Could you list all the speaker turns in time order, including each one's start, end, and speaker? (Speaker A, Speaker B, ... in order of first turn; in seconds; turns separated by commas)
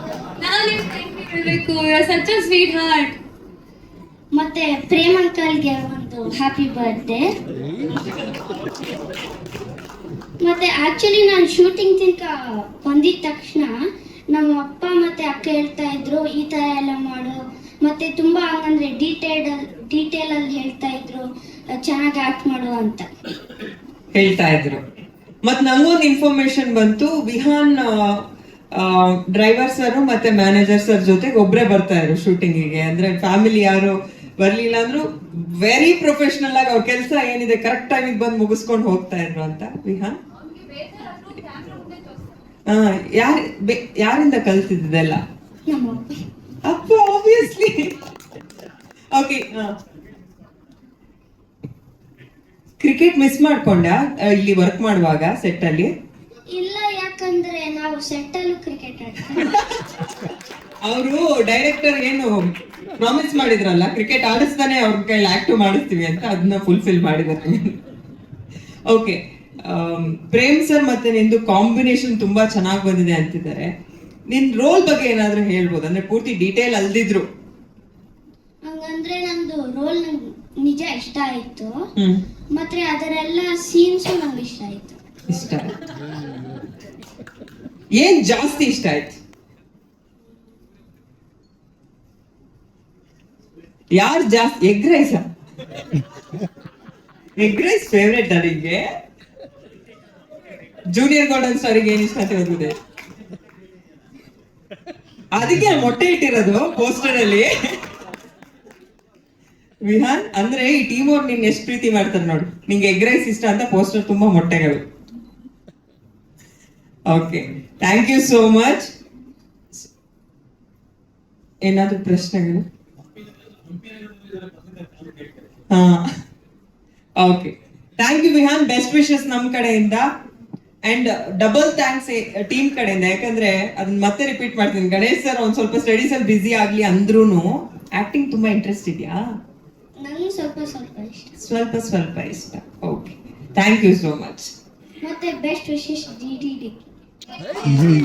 Speaker A: 0.4-3.2, Speaker B: 4.3-7.3, Speaker B: 10.4-13.7, Speaker B: 14.3-23.1, Speaker C: 24.1-24.8, Speaker C: 25.4-40.2, Speaker A: 41.0-41.8, Speaker C: 42.7-45.2, Speaker B: 45.7-46.1, Speaker C: 46.6-48.0, Speaker C: 49.1-49.7, Speaker C: 52.8-55.9, Speaker B: 56.5-59.6, Speaker C: 60.9-62.5, Speaker C: 63.0-67.8, Speaker C: 68.9-73.7, Speaker C: 74.3-77.3, Speaker B: 78.7-81.8, Speaker C: 82.0-82.2, Speaker B: 82.5-85.0, Speaker C: 85.3-85.8, Speaker C: 87.9-89.2, Speaker C: 93.9-95.3, Speaker C: 97.4-98.8, Speaker C: 100.9-102.8, Speaker C: 105.3-107.8, Speaker C: 109.8-114.8, Speaker C: 117.1-118.9, Speaker C: 121.6-122.7, Speaker C: 125.7-126.1, Speaker C: 127.2-130.1, Speaker C: 130.8-139.2, Speaker B: 140.0-141.3, Speaker C: 141.4-144.5, Speaker B: 145.0-146.9